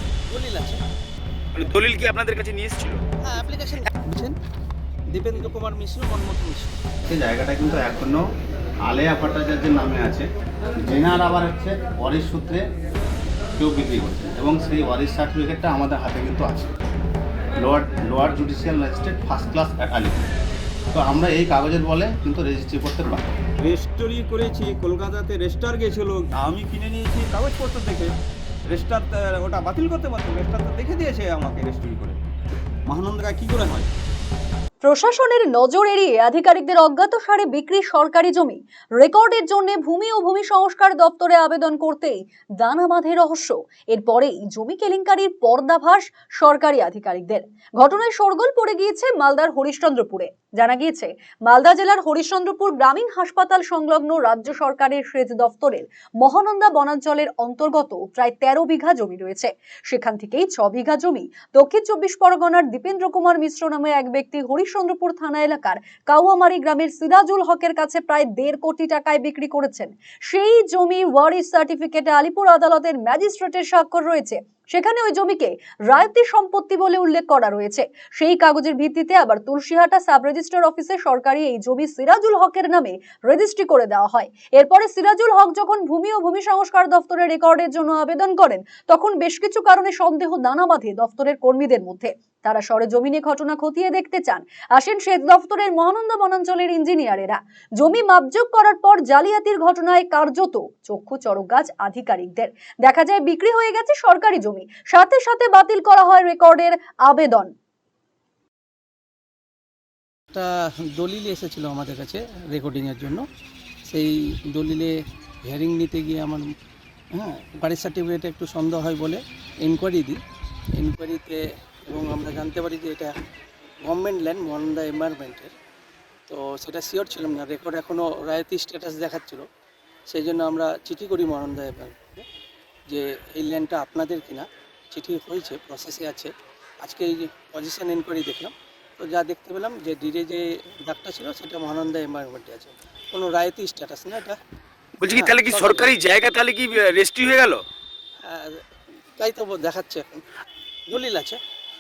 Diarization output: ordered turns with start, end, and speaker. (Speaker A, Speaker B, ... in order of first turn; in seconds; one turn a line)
Speaker A: 0.3-0.8
Speaker B: 1.6-3.0
Speaker A: 3.3-4.3
Speaker A: 5.1-6.8
Speaker C: 7.1-8.2
Speaker C: 8.8-10.3
Speaker C: 10.8-12.7
Speaker C: 13.6-16.7
Speaker C: 17.6-20.3
Speaker C: 20.9-23.3
Speaker D: 23.6-28.1
Speaker D: 28.7-32.2
Speaker D: 32.9-33.9
Speaker E: 34.8-107.5
Speaker A: 110.3-113.2
Speaker A: 113.9-114.9
Speaker A: 115.5-116.5
Speaker A: 117.2-120.2
Speaker A: 120.8-123.1
Speaker A: 123.9-125.5
Speaker A: 126.3-129.4
Speaker A: 130.1-132.2
Speaker A: 132.9-136.3
Speaker A: 136.8-144.4
Speaker B: 145.0-147.7
Speaker A: 145.1-145.9
Speaker A: 148.3-148.6
Speaker A: 149.2-150.2
Speaker A: 150.9-151.4